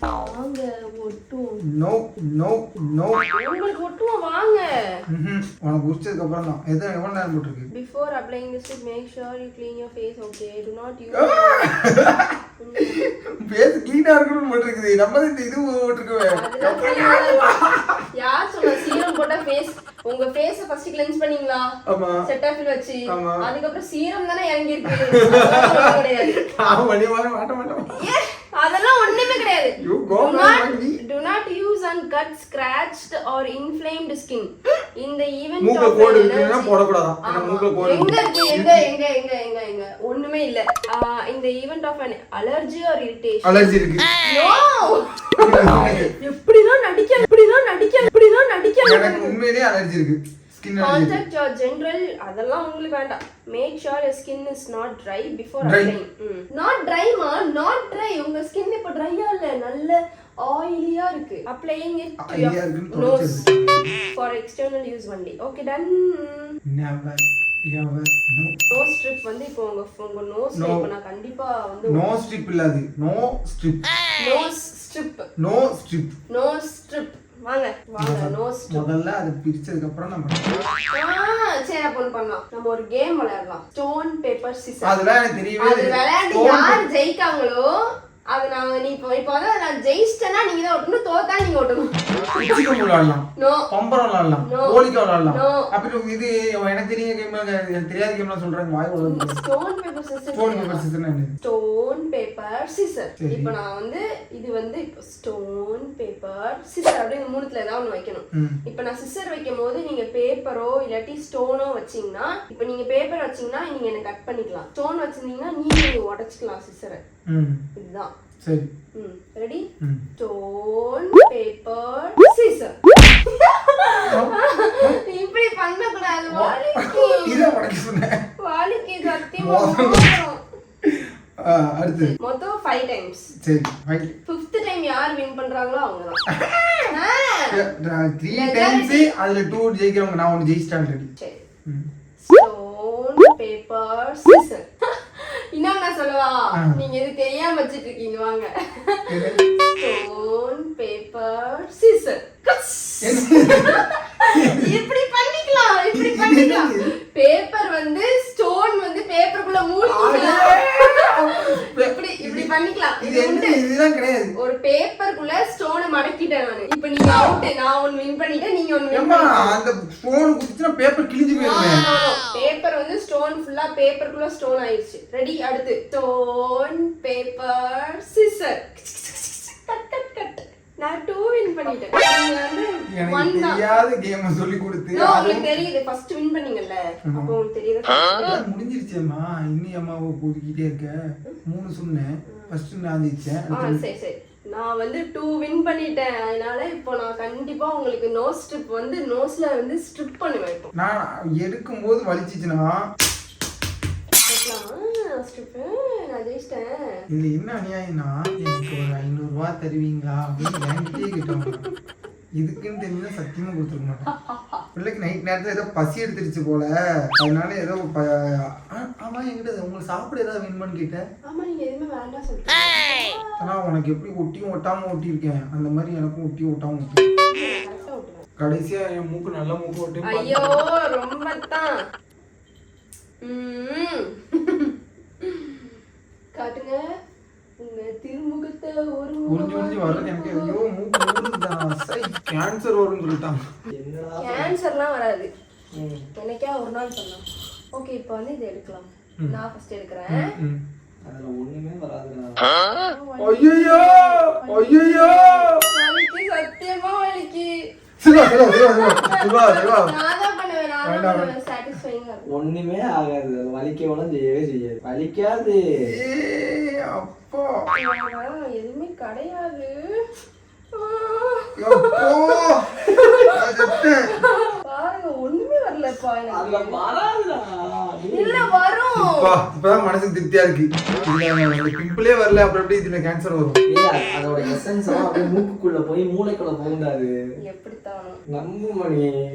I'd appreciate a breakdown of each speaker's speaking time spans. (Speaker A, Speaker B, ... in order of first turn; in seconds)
Speaker A: 0.1-1.6, 3.3-5.0, 7.7-11.8, 12.6-13.2, 16.3-17.6, 18.2-21.7, 22.2-26.4, 27.9-49.4, 50.8-63.4, 64.1-66.5, 68.7-72.0, 74.2-75.3, 76.3-78.8, 80.9-85.0, 85.6-92.6, 93.4-93.7, 94.4-95.7, 99.0-100.8, 101.4-117.0, 117.8-118.1, 118.9-127.5, 128.4-130.4, 132.0-133.3, 134.2-136.2, 136.9-137.6, 138.3-139.1, 141.2-141.4, 142.2-163.6, 164.3-169.6, 171.3-183.6, 184.9-188.4, 192.3-192.5, 193.5-200.7, 204.2-207.0, 214.1-214.6, 221.2-223.4, 227.3-228.2, 230.0-231.8, 233.2-235.7, 236.3-236.8, 237.6-240.6, 244.2-245.3, 246.1-250.3, 252.7-257.6, 258.3-262.2, 267.7-270.1, 270.7-276.8, 278.1-279.4, 287.4-288.2
Speaker B: 1.6-3.2, 5.1-7.7, 11.1-18.0, 21.9-22.2, 23.1-23.4, 24.9-28.1, 29.1-31.0, 35.6-38.9, 43.4-44.1, 45.4-46.1, 48.8-51.2, 55.6-55.9, 62.2-64.0, 66.7-68.6, 70.5-70.8, 71.9-73.8, 75.4-76.2, 78.0-80.5, 84.8-86.8, 92.3-99.4, 100.3-101.3, 103.2-103.5, 108.3-108.6, 117.3-117.6, 118.4-118.7, 119.8-120.0, 124.1-125.0, 126.3-128.2, 129.2-130.2, 130.8-132.2, 133.4-134.2, 136.3-136.9, 137.5-141.1, 146.5-146.8, 149.1-149.4, 153.0-154.8, 155.9-156.9, 159.8-164.3, 168.9-171.8, 182.9-185.6, 187.1-187.3, 188.2-193.8, 200.7-202.8, 207.1-211.7, 212.4-214.1, 214.7-221.0, 223.4-227.0, 228.4-230.6, 239.3-243.4, 250.1-250.6, 253.2-255.6, 258.0-259.9, 260.8-261.3, 265.8-267.5, 271.6-274.2, 278.9-283.6
Speaker C: 243.7-244.5, 245.7-246.0, 251.1-252.5, 262.3-265.9, 276.3-278.5, 283.7-287.1, 288.3-289.1